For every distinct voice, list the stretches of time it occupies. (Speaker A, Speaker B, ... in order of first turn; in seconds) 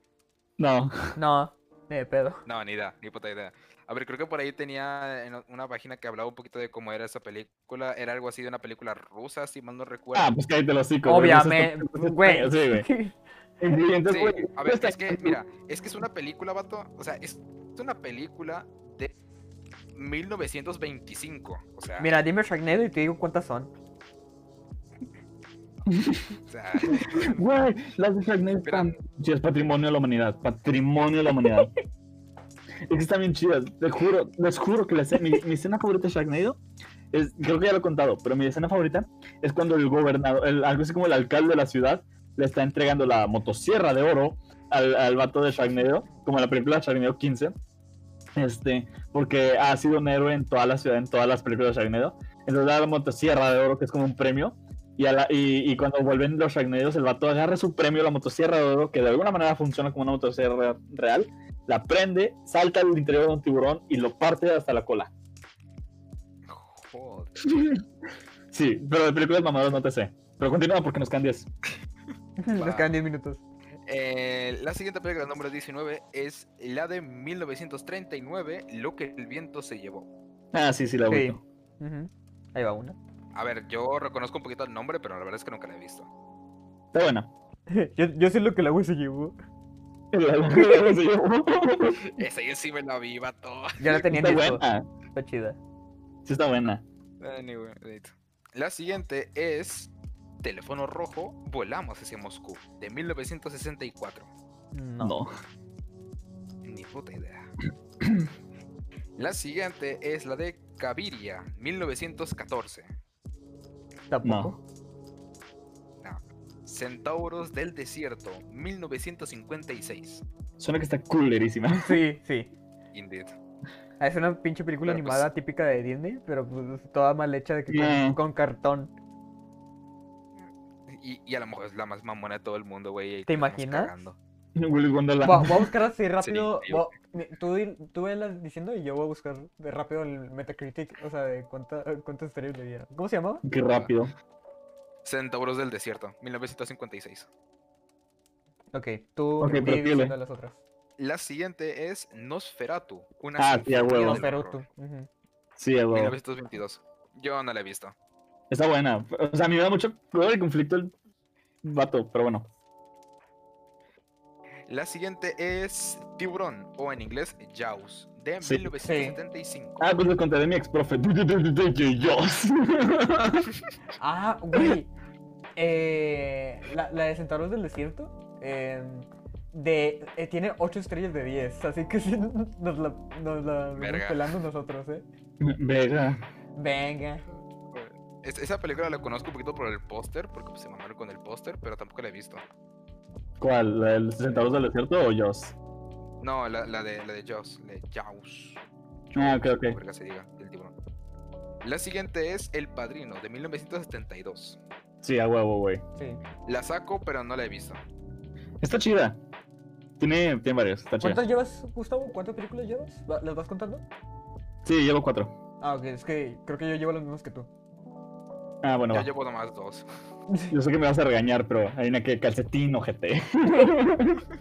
Speaker A: 0.6-1.1, 10.1-12.9, 13.6-15.4, 25.9-26.3, 26.9-31.7, 32.9-36.6, 37.1-47.5, 48.3-65.1, 67.4-67.8, 68.5-71.5, 80.5-81.4, 86.9-87.3, 90.1-92.0, 93.9-94.8, 96.2-96.8, 105.0-105.3, 108.0-108.3, 114.2-114.5, 120.6-122.0, 127.7-128.2, 134.6-135.7, 143.4-144.1, 149.4-150.1, 153.4-154.2, 155.6-156.1, 158.5-160.9, 161.6-162.5, 168.4-168.7, 169.8-173.5, 185.4-186.2, 193.4-195.5, 199.2-199.8, 205.0-205.8, 208.6-209.2, 210.0-211.2, 214.6-215.3, 218.6-219.1, 220.5-224.2
Speaker B: 1.2-2.4, 11.0-13.2, 22.0-23.7, 72.4-73.4, 81.1-83.0, 87.7-89.3, 90.5-90.9, 93.8-95.6, 104.7-105.2, 114.1-114.6, 121.7-122.5, 124.0-128.9, 133.3-133.9, 135.2-143.4, 148.7-150.6, 153.9-155.1, 168.8-169.2, 174.0-174.9, 175.6-185.0, 186.5-187.2, 205.9-206.2, 211.0-213.8, 215.6-217.5
Speaker C: 2.5-10.3, 14.1-19.1, 19.9-22.1, 26.5-27.4, 28.6-28.9, 66.5-67.4, 72.5-72.9, 73.8-80.1, 83.3-86.1, 92.1-94.0, 97.2-99.9, 100.4-104.3, 106.6-107.5, 109.2-112.9, 116.0-120.2, 122.9-123.4, 124.8-125.3, 130.9-134.2, 136.2-136.9, 145.0-147.3, 151.0-154.6, 155.9-157.9, 164.7-169.9, 183.8-184.3, 187.7-192.4, 196.2-200.7, 201.6-204.6, 206.4-207.8, 218.9-219.8